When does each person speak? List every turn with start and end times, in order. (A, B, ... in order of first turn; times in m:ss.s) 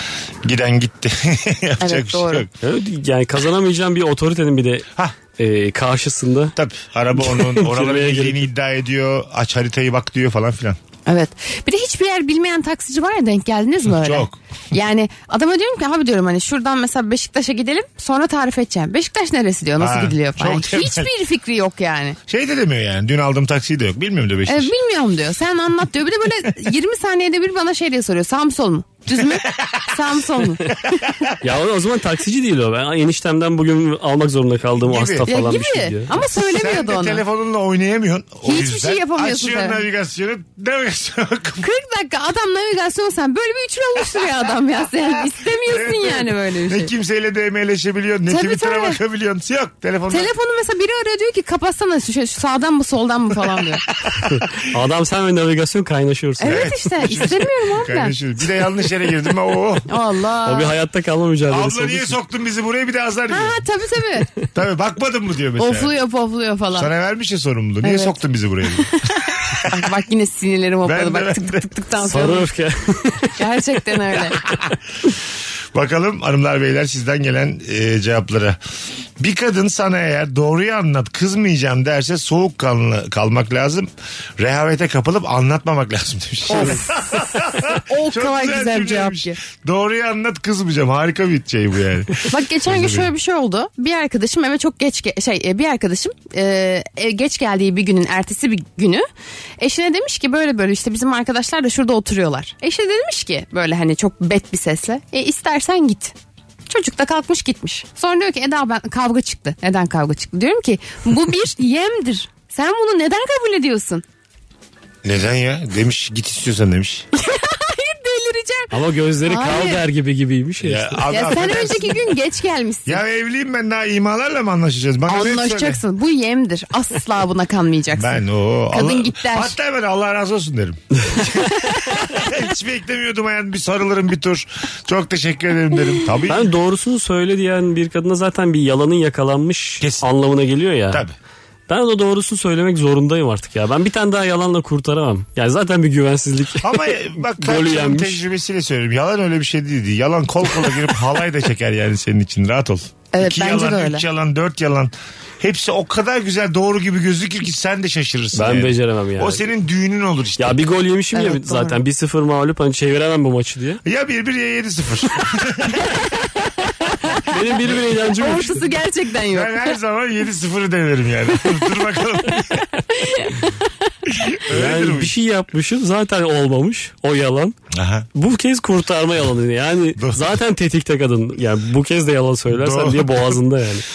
0:00.4-0:02.5 A
0:01.8-0:02.5 B
0:02.6-0:06.5 C
0:06.6-0:10.8 A
0:07.2-0:08.4 C
0:11.1-0:22.2 B
0:13.9-0:14.4 A
0:19.8-0:21.1 A
0:22.3-0:24.7 A
0:24.5-0:31.1 B
0:29.2-0:29.9 A
0:30.7-0:31.4 A
0:31.4-0:36.1 C
0:34.8-0:35.3 A
0:35.3-0:37.2 B
0:36.4-0:41.7 A
0:38.4-0:39.8 B
0:41.6-0:46.9 B
0:45.1-0:50.3 A
0:48.3-0:49.0 B
0:50.1-0:53.8 B
0:53.9-0:54.6 A
0:54.3-0:56.7 C
0:56.4-0:58.2 B
0:56.4-0:59.9 A
0:59.9-1:00.8 B
1:00.4-1:02.2 C
1:01.5-1:03.6 A
1:03.3-1:04.3 B
1:04.5-1:05.9 A
1:05.6-1:06.9 B
1:06.7-1:09.9 A
1:07.8-1:08.2 B
1:08.8-1:12.5 B
1:10.8-1:11.7 A
1:12.0-1:13.3 C
1:13.4-1:14.4 B
1:14.4-1:14.8 A
1:15.7-1:18.6 A
1:19.2-1:33.1 A
1:26.5-1:27.1 B
1:27.8-1:29.4 B
1:32.3-1:39.1 B
1:39.6-1:46.2 B
1:46.7-1:54.0 B
1:55.0-1:57.1 A
1:57.2-1:58.7 B
1:58.7-2:01.1 C
1:59.3-1:59.8 B
2:00.6-2:02.2 A
2:01.1-2:03.0 B
2:02.9-2:05.8 A
2:05.1-2:09.6 B
2:07.9-2:16.5 A
2:16.3-2:21.1 C
2:21.7-2:28.2 C
2:26.6-2:40.6 A
2:33.1-2:34.0 B
2:38.3-2:39.4 C
2:40.4-2:43.8 C
2:41.1-2:41.8 B
2:43.8-2:46.0 A
2:46.6-2:47.3 B
2:47.3-2:48.7 C
2:47.9-2:49.7 B
2:49.3-2:52.8 A
2:52.4-2:53.7 B
2:54.1-2:55.2 A
2:54.5-2:57.6 C
2:57.7-2:58.1 A
2:58.2-3:03.9 C
3:00.0-3:00.3 A
3:02.5-3:03.4 A